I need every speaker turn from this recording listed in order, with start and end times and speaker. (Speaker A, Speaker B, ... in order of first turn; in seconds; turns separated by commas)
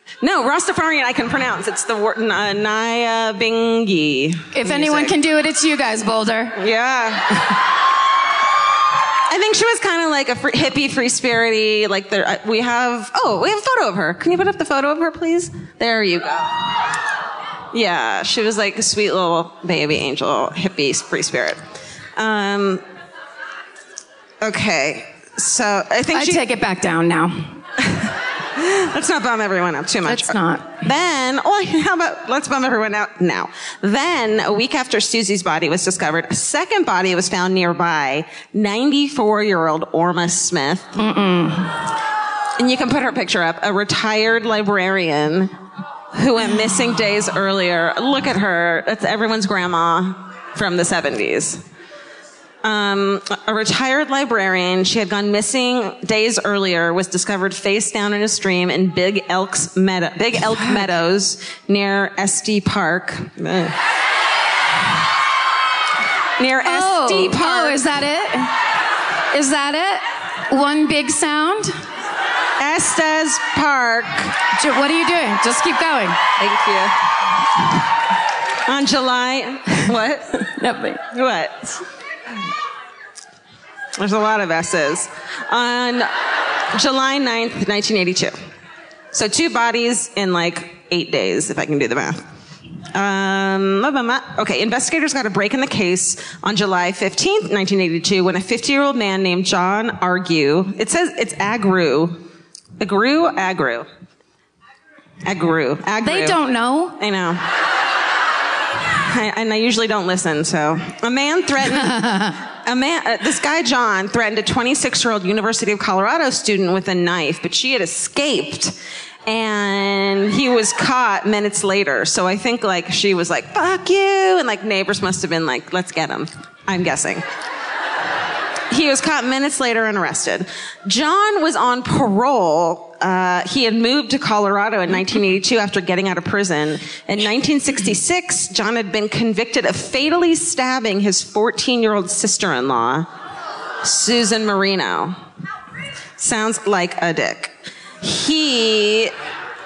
Speaker A: 0.2-5.2, Speaker B: 4.5-6.6, Speaker A: 6.6-7.5, Speaker A: 9.3-16.8, Speaker A: 17.7-21.6, Speaker A: 22.2-22.8, Speaker A: 24.4-26.4, Speaker B: 26.1-27.6, Speaker A: 27.9-40.9, Speaker B: 30.1-30.8, Speaker B: 41.0-41.8, Speaker A: 42.6-45.5, Speaker A: 46.1-51.6, Speaker A: 52.6-63.8, Speaker A: 66.4-67.8, Speaker B: 66.7-68.6, Speaker B: 69.3-71.8, Speaker A: 72.6-74.4, Speaker B: 74.5-76.2, Speaker A: 76.4-77.0, Speaker A: 78.7-80.5, Speaker B: 80.4-81.0, Speaker A: 81.1-81.8, Speaker A: 84.0-86.1, Speaker A: 86.7-88.3, Speaker A: 89.1-92.2, Speaker A: 92.9-102.2, Speaker A: 102.8-103.9, Speaker A: 105.2-106.4, Speaker B: 106.0-107.0, Speaker A: 107.0-107.4, Speaker A: 109.0-118.8, Speaker B: 111.7-112.4, Speaker A: 119.3-127.2, Speaker A: 128.7-143.1, Speaker A: 143.8-145.2, Speaker A: 146.2-149.1